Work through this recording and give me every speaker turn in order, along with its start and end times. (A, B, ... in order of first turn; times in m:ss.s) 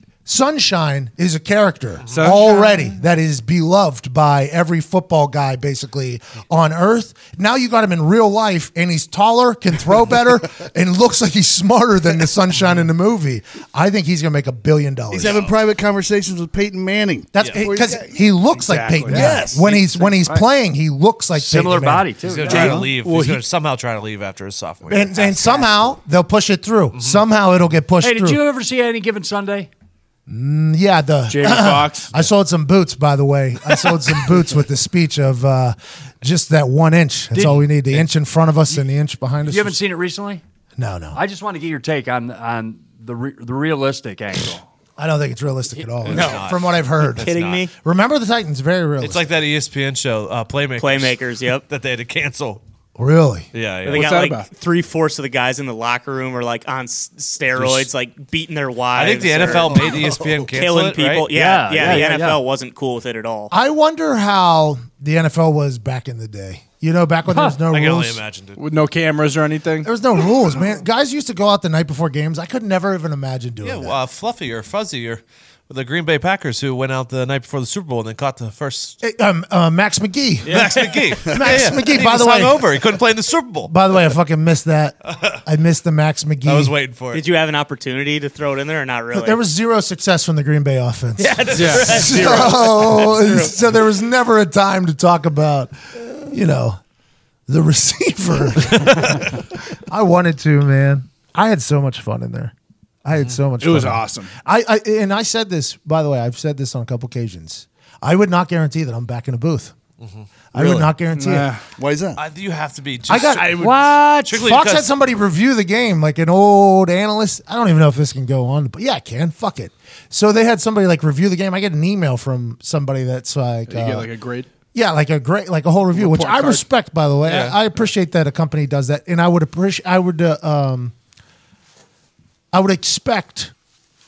0:00.2-0:15.4 A
0:02.0-0:02.3 B
0:02.1-0:02.9 C
0:15.1-0:18.2 D
0:15.2-0:15.6 B
0:17.3-0:22.8 A
0:17.4-0:17.7 B
0:18.5-0:19.9 C
0:19.1-0:20.4 E
0:19.2-0:19.6 D
0:21.4-0:22.8 E
0:22.2-0:25.6 B
0:22.5-0:22.8 D
0:22.9-0:23.4 C
0:24.9-0:28.4 A
0:26.9-0:27.2 B
0:28.0-0:29.7 E
0:30.3-0:39.8 A
0:31.3-0:32.2 C
0:37.3-0:37.6 E
0:39.5-0:40.4 E
0:40.8-0:41.2 A
0:41.1-0:44.6 E
0:45.0-0:49.3 A
0:46.0-0:47.6 B
0:46.1-0:46.4 F
0:47.2-0:47.7 F
0:49.0-0:52.6 B
0:50.8-0:51.6 F
0:53.0-0:53.5 A
0:53.5-0:54.0 B
0:53.8-0:54.5 C
0:53.9-1:03.5 F
0:57.5-0:57.9 B
0:58.9-1:01.3 B
1:01.3-1:02.4 E
1:03.5-1:08.2 A
1:07.7-1:08.6 B
1:08.6-1:09.9 C
1:09.8-1:14.0 A
1:13.6-1:19.0 B
1:19.0-1:22.6 A
1:20.5-1:21.1 F
1:20.5-1:23.7 B
1:23.7-1:26.7 A
1:26.4-1:27.3 B
1:27.1-1:29.4 F
1:29.1-1:36.8 A
1:31.2-1:33.0 B
1:31.5-1:33.2 C
1:31.9-1:32.4 F
1:37.5-1:39.4 A
1:39.9-1:42.5 A
1:43.0-1:49.7 A
1:43.6-1:44.3 C
1:50.0-1:50.3 B
1:50.5-1:51.5 A
1:50.5-1:50.9 D
1:51.1-1:51.6 C
1:51.8-1:52.2 D
1:52.2-1:53.6 B
1:53.1-1:53.6 A
1:53.3-1:53.8 C
1:53.5-1:54.4 E
1:54.2-2:04.1 A
1:54.3-1:54.9 B
2:03.7-2:04.5 C
2:04.7-2:10.9 A
2:05.9-2:06.6 C
2:07.2-2:07.6 B
2:12.5-2:13.5 A